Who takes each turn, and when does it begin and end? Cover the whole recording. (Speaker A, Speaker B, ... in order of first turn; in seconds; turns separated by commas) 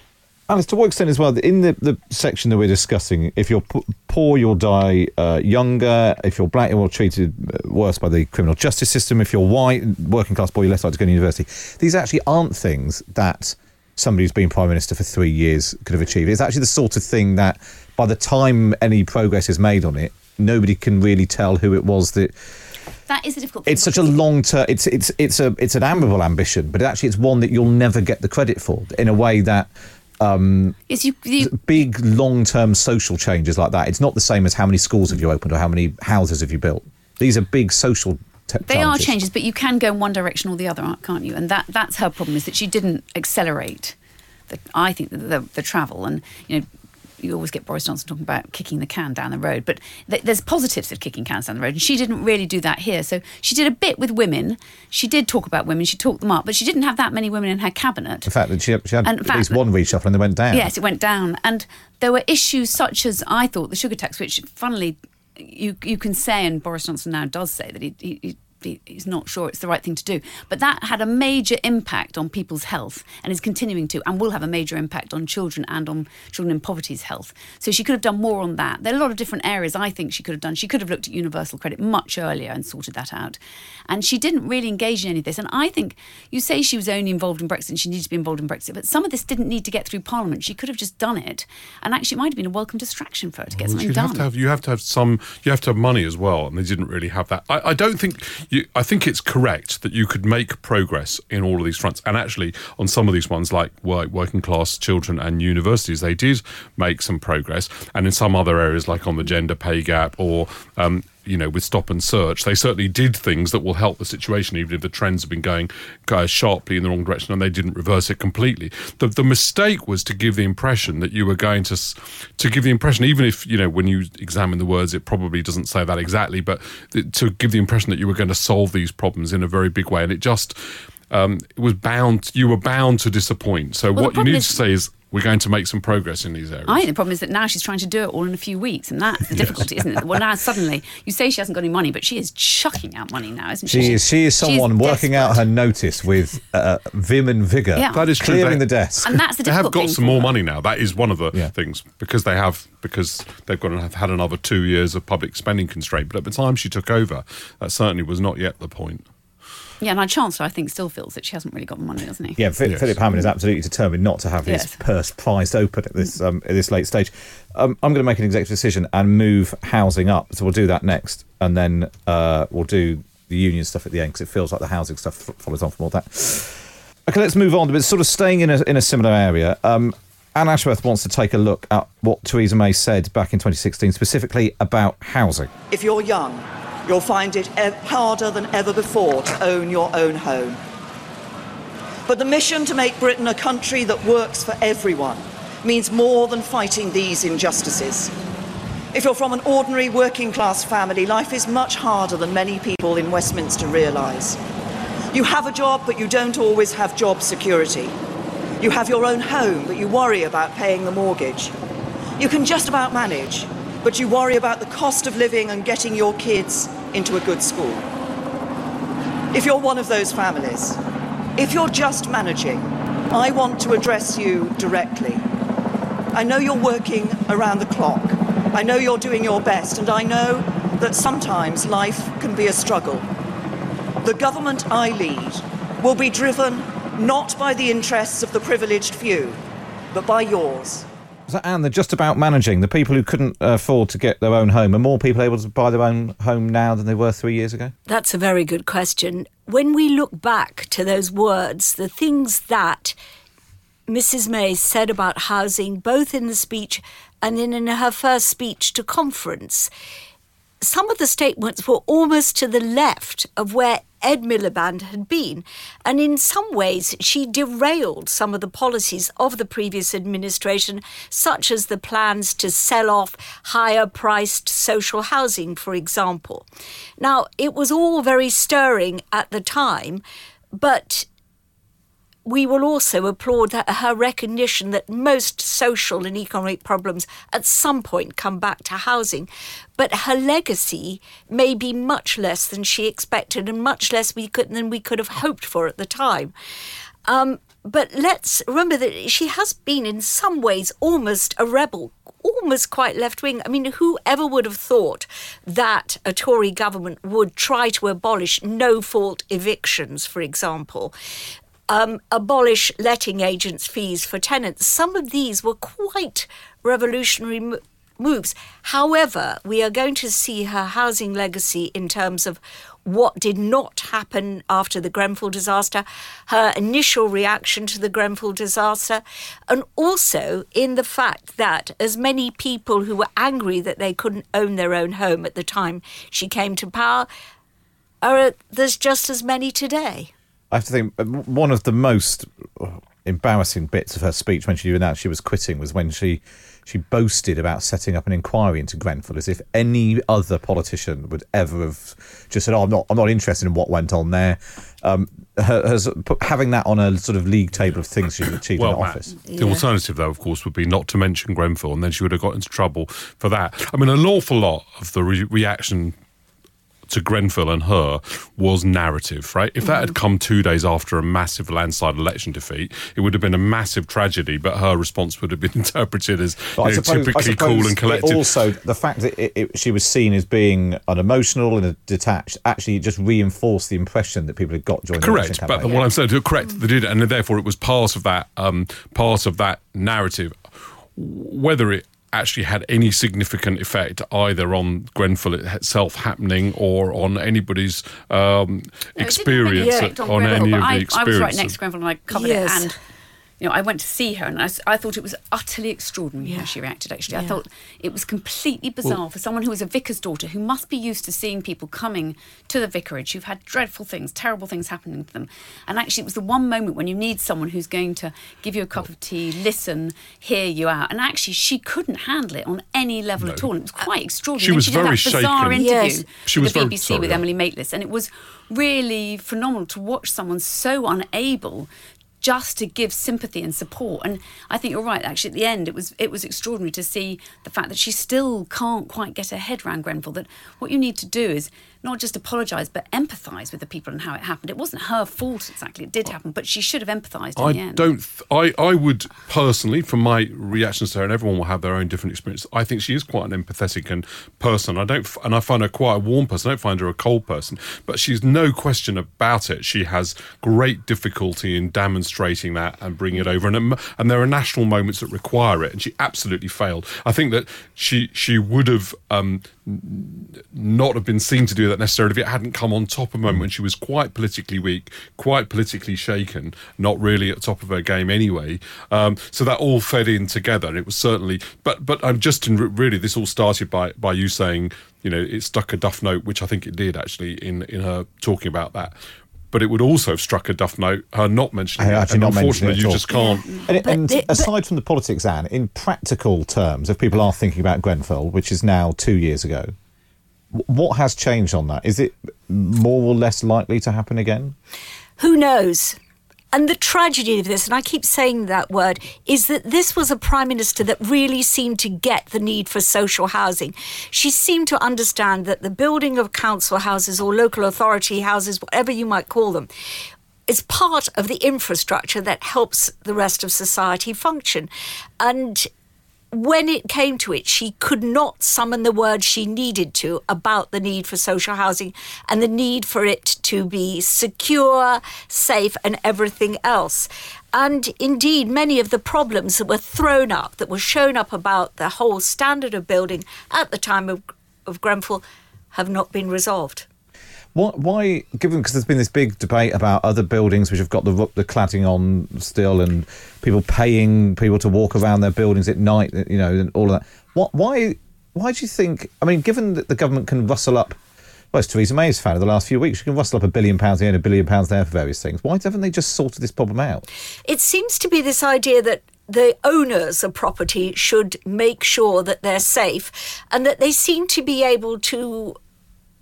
Speaker A: 0.5-22.3, Speaker B: 23.1-24.2, Speaker A: 23.7-30.8, Speaker B: 30.9-31.6, Speaker A: 31.4-39.1, Speaker B: 38.7-44.0, Speaker B: 44.5-46.7, Speaker B: 47.2-58.3, Speaker A: 58.3-60.7, Speaker B: 59.0-59.6, Speaker B: 60.5-94.3, Speaker C: 93.6-130.6, Speaker C: 131.1-136.9, Speaker B: 134.0-134.6, Speaker B: 136.7-145.4, Speaker A: 143.7-149.1, Speaker B: 147.8-148.1, Speaker C: 147.9-159.1, Speaker B: 149.0-150.4, Speaker B: 159.8-162.4, Speaker A: 162.4-185.5, Speaker C: 162.7-163.0, Speaker B: 164.4-164.8, Speaker D: 185.7-190.6, Speaker D: 192.1-198.1, Speaker D: 198.9-204.4, Speaker D: 205.1-207.9, Speaker D: 208.6-211.5, Speaker D: 212.2-217.8, Speaker D: 219.3-220.8, Speaker D: 221.4-225.2, Speaker D: 226.1-233.1, Speaker D: 234.0-239.4, Speaker D: 239.9-240.9, Speaker A: 241.3-247.8, Speaker E: 247.9-252.9, Speaker E: 253.9-259.7, Speaker E: 260.6-276.5, Speaker E: 277.0-280.0, Speaker E: 280.5-281.1, Speaker E: 282.3-296.3, Speaker E: 297.1-310.9, Speaker E: 311.7-337.1, Speaker E: 338.0-340.1, Speaker A: 340.5-359.1, Speaker C: 358.6-365.9, Speaker E: 359.3-359.6, Speaker C: 366.9-378.4, Speaker A: 376.6-385.7, Speaker C: 385.0-390.4, Speaker C: 391.0-401.6, Speaker B: 399.0-402.8, Speaker E: 399.6-399.9, Speaker E: 402.1-402.7, Speaker B: 403.4-431.7, Speaker E: 406.2-406.5, Speaker E: 407.1-407.4, Speaker C: 423.2-423.5, Speaker C: 424.4-425.6, Speaker E: 425.6-426.1, Speaker C: 426.2-427.2, Speaker B: 432.2-447.9, Speaker C: 447.4-489.0, Speaker C: 489.5-493.5, Speaker A: 491.8-493.1, Speaker E: 493.1-494.5, Speaker A: 493.7-499.7, Speaker A: 500.5-504.6, Speaker E: 505.2-506.0, Speaker E: 506.5-519.7, Speaker E: 520.5-525.7, Speaker E: 526.3-546.9, Speaker A: 547.5-561.0, Speaker A: 561.5-567.1, Speaker E: 567.5-575.6